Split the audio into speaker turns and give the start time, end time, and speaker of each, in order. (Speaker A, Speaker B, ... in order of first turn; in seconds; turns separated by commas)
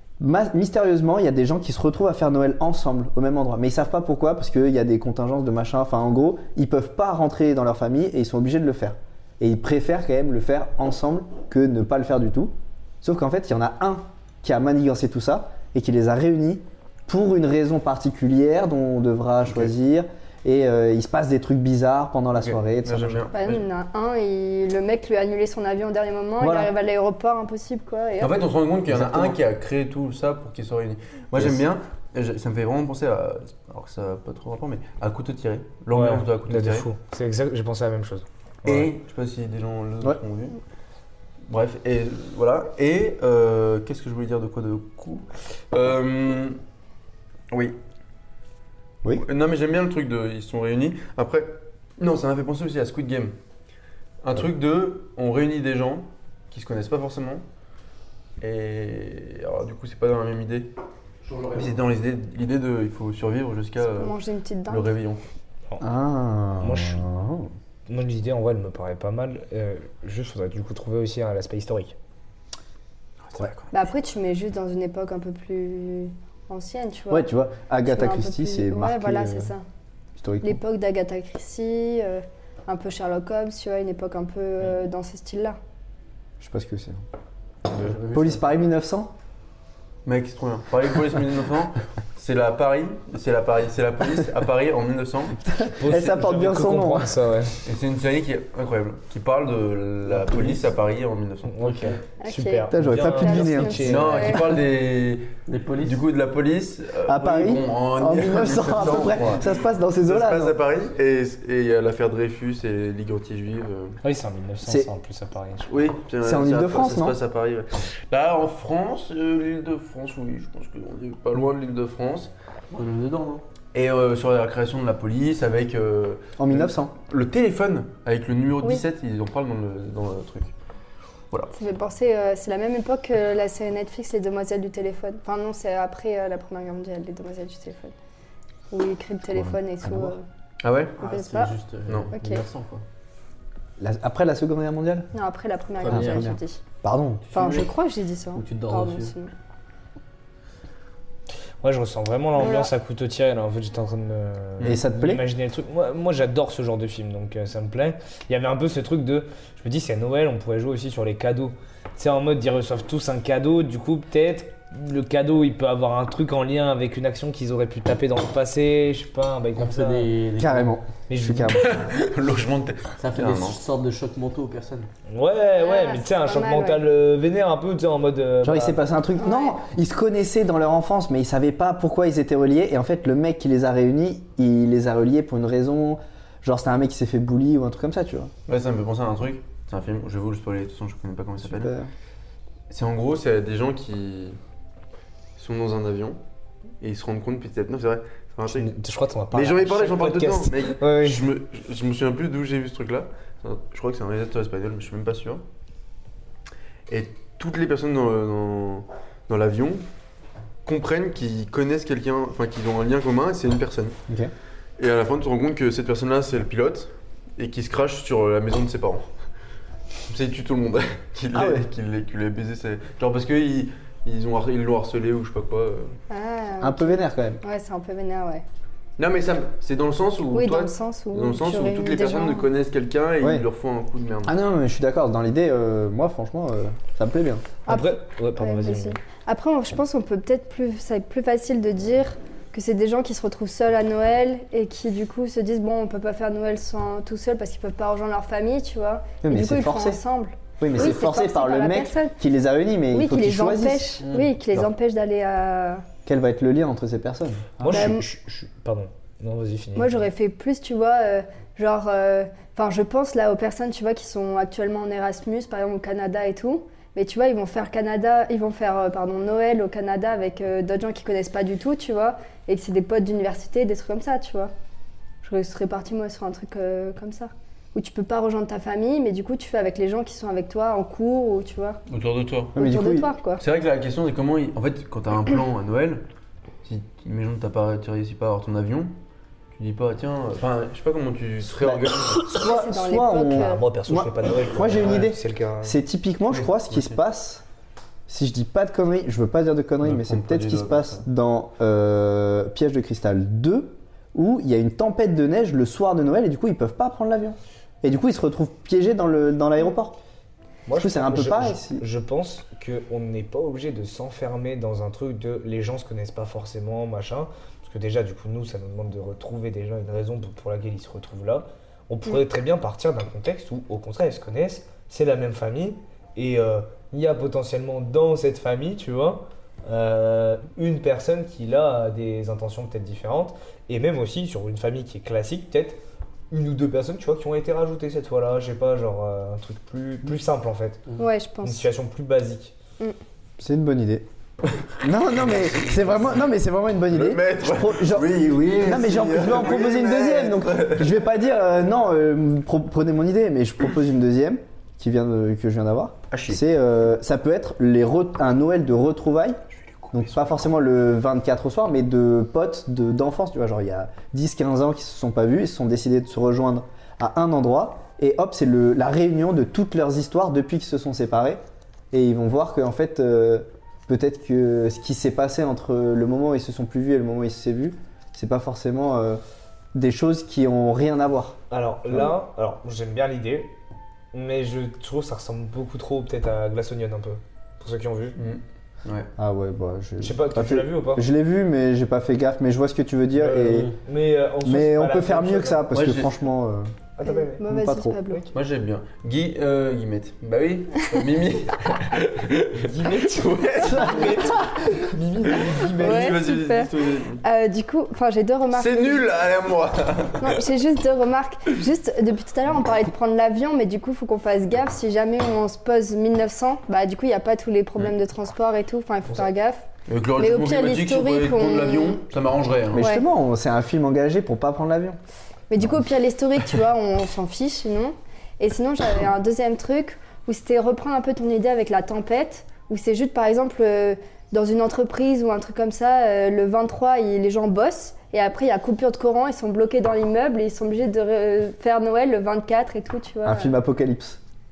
Speaker A: 0.2-23.3, Speaker B: 22.4-23.6, Speaker C: 23.3-28.4, Speaker A: 26.4-26.7, Speaker B: 28.2-36.9, Speaker A: 28.9-29.4, Speaker A: 31.4-31.6, Speaker D: 35.9-38.9, Speaker B: 38.6-40.6, Speaker B: 41.5-46.6, Speaker B: 47.5-47.8, Speaker B: 49.1-53.3, Speaker B: 54.2-57.4, Speaker B: 58.4-60.7, Speaker E: 61.2-61.8, Speaker B: 61.5-64.2, Speaker C: 63.8-64.9, Speaker B: 64.7-65.3, Speaker A: 65.8-67.5, Speaker D: 66.6-67.0, Speaker D: 67.9-72.0, Speaker B: 73.3-73.7, Speaker C: 73.7-77.3, Speaker A: 77.1-79.5, Speaker C: 77.8-79.6, Speaker A: 80.2-80.6, Speaker C: 80.4-85.6, Speaker A: 86.4-87.0, Speaker E: 87.7-88.5, Speaker A: 87.7-89.1, Speaker B: 90.0-96.0, Speaker A: 95.5-97.2, Speaker D: 95.7-97.6, Speaker B: 97.6-101.7, Speaker E: 100.1-100.7, Speaker D: 101.5-104.4, Speaker E: 101.6-102.0, Speaker C: 102.2-104.5, Speaker A: 102.7-104.0, Speaker B: 103.8-114.0, Speaker E: 105.5-106.0, Speaker A: 107.0-110.6, Speaker E: 108.9-109.4, Speaker D: 114.0-115.9, Speaker A: 114.7-114.9, Speaker B: 115.7-122.3, Speaker A: 116.2-117.2, Speaker E: 122.7-123.4, Speaker B: 123.7-130.5, Speaker A: 126.4-126.9, Speaker C: 131.5-137.9, Speaker C: 138.7-140.2, Speaker A: 139.3-140.2, Speaker B: 140.6-141.0, Speaker E: 141.0-142.8, Speaker C: 141.0-141.6, Speaker C: 142.1-142.4, Speaker A: 143.8-145.1, Speaker C: 145.1-146.6, Speaker E: 145.8-146.3, Speaker A: 145.9-147.3, Speaker E: 147.3-147.7, Speaker C: 147.3-149.3, Speaker E: 148.3-149.1, Speaker D: 151.6-170.1, Speaker C: 152.4-152.7, Speaker A: 154.6-155.2, Speaker E: 169.6-170.8, Speaker A: 170.4-171.9, Speaker D: 171.1-171.7, Speaker B: 171.5-173.6, Speaker E: 173.0-174.9, Speaker D: 175.1-178.8, Speaker C: 175.6-176.8, Speaker A: 178.4-188.3, Speaker C: 179.2-179.6, Speaker B: 188.5-191.7, Speaker A: 191.4-191.9, Speaker B: 192.7-194.4, Speaker B: 195.4-196.2, Speaker B: 196.8-198.7, Speaker D: 198.5-201.3, Speaker B: 199.3-205.4, Speaker B: 206.9-209.8, Speaker B: 210.7-214.0, Speaker B: 214.8-219.1, Speaker B: 220.1-226.0, Speaker A: 221.3-221.7, Speaker C: 226.1-228.4, Speaker A: 226.6-227.4, Speaker B: 229.0-234.3, Speaker C: 230.3-232.5, Speaker A: 234.2-237.5, Speaker D: 237.7-239.0, Speaker C: 237.7-252.2, Speaker A: 249.2-250.0, Speaker A: 250.6-254.0, Speaker C: 252.9-255.8, Speaker E: 254.0-254.3, Speaker A: 256.1-257.9, Speaker D: 257.6-260.0, Speaker C: 257.7-258.0, Speaker C: 259.8-274.5, Speaker C: 275.2-281.8, Speaker B: 281.9-282.5, Speaker A: 282.6-283.1, Speaker C: 282.6-283.4, Speaker B: 283.4-286.0, Speaker B: 286.6-288.9, Speaker B: 289.5-292.3, Speaker A: 291.6-297.4, Speaker C: 292.3-293.6, Speaker D: 293.3-295.8, Speaker B: 294.7-295.1, Speaker B: 296.3-297.0, Speaker A: 298.1-310.0, Speaker B: 299.8-301.0, Speaker D: 310.7-335.8, Speaker A: 310.8-311.9, Speaker D: 336.3-340.8, Speaker C: 341.0-341.7, Speaker D: 341.4-342.5, Speaker A: 343.4-344.1, Speaker A: 344.8-359.4, Speaker B: 346.9-351.0, Speaker B: 356.1-356.4, Speaker B: 359.6-360.4, Speaker A: 359.9-371.4, Speaker A: 371.9-379.2, Speaker A: 379.7-381.4, Speaker D: 381.5-383.5, Speaker D: 384.1-388.2, Speaker B: 388.2-389.1, Speaker A: 389.2-393.7, Speaker D: 390.0-391.1, Speaker D: 393.2-395.7, Speaker A: 394.4-396.7, Speaker B: 395.7-396.1, Speaker D: 397.0-397.4, Speaker C: 397.0-398.2, Speaker A: 397.4-398.0, Speaker B: 398.3-407.2, Speaker D: 402.6-406.0, Speaker A: 403.7-404.4, Speaker C: 405.6-409.1, Speaker B: 408.5-410.4, Speaker C: 410.2-422.0, Speaker B: 419.9-422.9, Speaker A: 422.7-425.0, Speaker C: 422.8-423.1, Speaker C: 425.5-443.5, Speaker A: 443.2-444.2